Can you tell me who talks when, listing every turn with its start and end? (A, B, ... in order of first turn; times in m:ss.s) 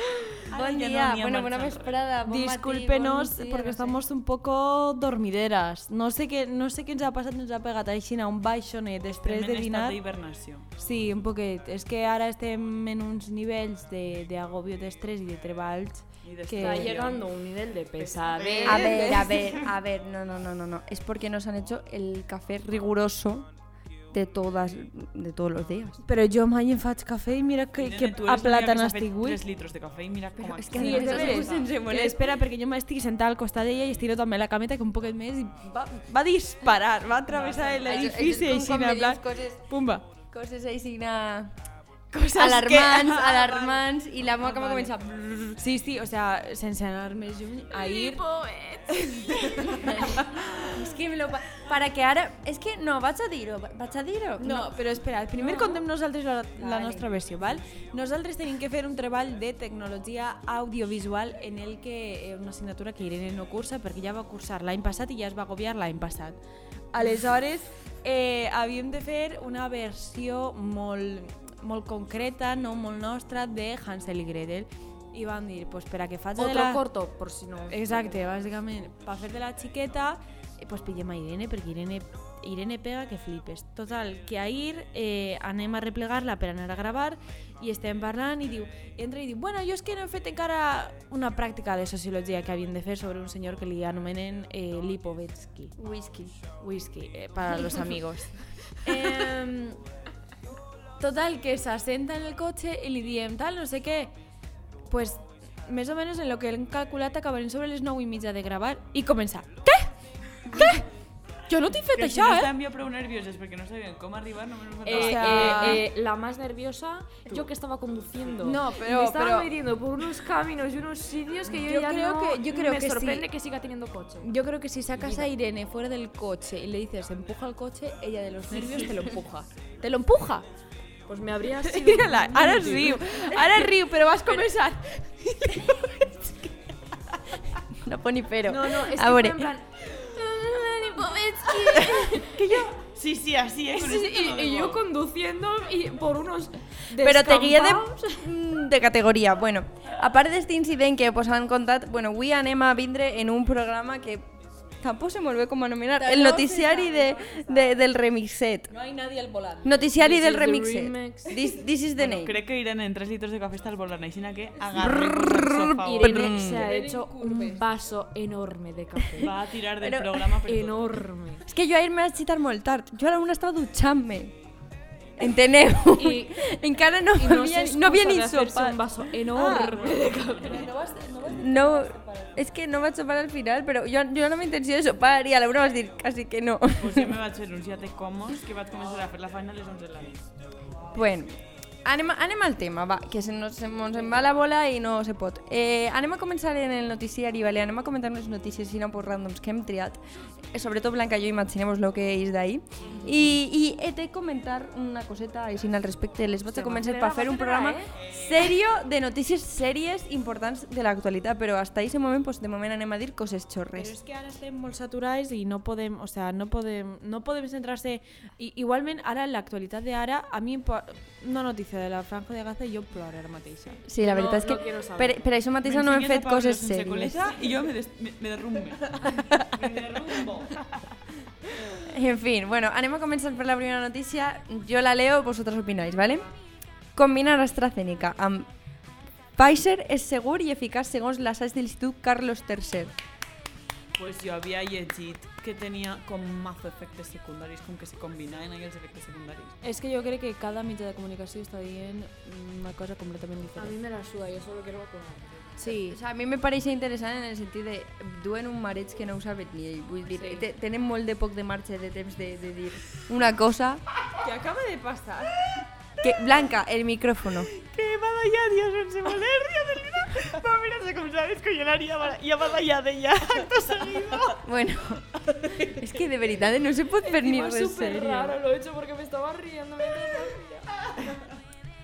0:00.5-0:02.0 A
0:00.5-0:04.0 B
0:02.2-0:10.0 C
0:09.2-0:10.7 A
0:10.8-0:17.0 C
0:16.2-0:17.3 A
0:16.6-0:19.0 D
0:18.0-0:19.7 A
0:18.6-0:19.5 C
0:18.6-0:23.5 B
0:24.1-0:26.0 B
0:26.0-0:29.4 C
0:27.8-0:31.7 A
0:30.4-0:32.3 B
0:30.7-0:40.1 C
0:30.8-0:31.4 D
0:37.3-0:38.0 A
0:37.8-0:39.7 B
0:40.3-0:41.5 B
0:42.1-0:43.0 C
0:42.2-0:45.6 B
0:42.4-0:44.9 A
0:45.6-0:48.2 C
0:47.7-0:50.2 D
0:48.9-0:49.9 C
0:49.6-0:54.8 B
0:54.4-1:06.4 C
0:55.4-0:55.8 B
0:56.6-0:57.2 B
1:06.9-1:16.8 C
1:16.4-1:18.6 D
1:17.7-1:35.7 C
1:35.8-1:36.4 B
1:36.6-1:39.8 C
1:37.6-1:37.8 B
1:41.0-1:44.1 C
1:44.9-1:49.9 C
1:50.5-1:50.8 C
1:51.5-1:52.5 C
1:51.9-1:55.7 A
1:54.8-2:04.3 D
1:54.9-1:55.8 C
1:58.4-1:59.5 C
2:01.5-2:03.2 C
2:04.2-2:10.4 C
2:05.0-2:05.3 D
2:11.1-2:13.5 D
2:11.6-2:16.5 C
2:13.1-2:13.6 B
2:17.7-2:19.5 B
2:18.4-2:22.7 D
2:21.8-2:22.1 B
2:22.1-2:24.8 A
2:23.7-2:28.3 D
2:26.9-2:34.3 B
2:34.8-2:38.7 B
2:36.0-2:37.8 C
2:38.7-2:39.8 C
2:39.6-2:42.3 B
2:39.9-2:41.4 D
2:42.0-2:46.6 A
2:44.7-2:46.7 B
2:45.8-2:49.3 D
2:46.5-2:47.6 C
2:49.2-2:51.0 A
2:49.8-2:50.4 B
2:50.4-2:51.4 D
2:51.4-2:54.4 B
2:55.2-2:58.8 B
2:55.9-2:56.4 D
2:57.1-3:00.7 D
2:59.3-3:02.4 C
2:59.5-3:00.3 A
3:01.2-3:07.2 B
3:06.8-3:10.3 A
3:10.9-3:34.0 B
3:26.5-3:27.9 D
3:27.9-3:28.6 A
3:33.7-3:43.8 C
3:43.8-3:47.4 B
3:44.0-3:45.3 D
3:45.6-3:50.8 A
3:49.0-3:49.4 C
3:51.8-3:56.3 B
3:56.9-3:58.5 B
3:59.4-4:02.9 B
4:04.0-4:09.6 A
4:09.6-4:13.8 C
4:13.6-4:15.6 D
4:15.6-4:16.0 C
4:15.7-4:23.8 B
4:20.1-4:20.4 D
4:24.2-4:25.4 C
4:26.0-4:26.4 A
4:26.0-4:27.5 B
4:27.5-4:34.4 A
4:34.3-4:38.4 B
4:35.3-4:35.7 A
4:37.0-4:40.7 D
4:40.9-4:41.2 A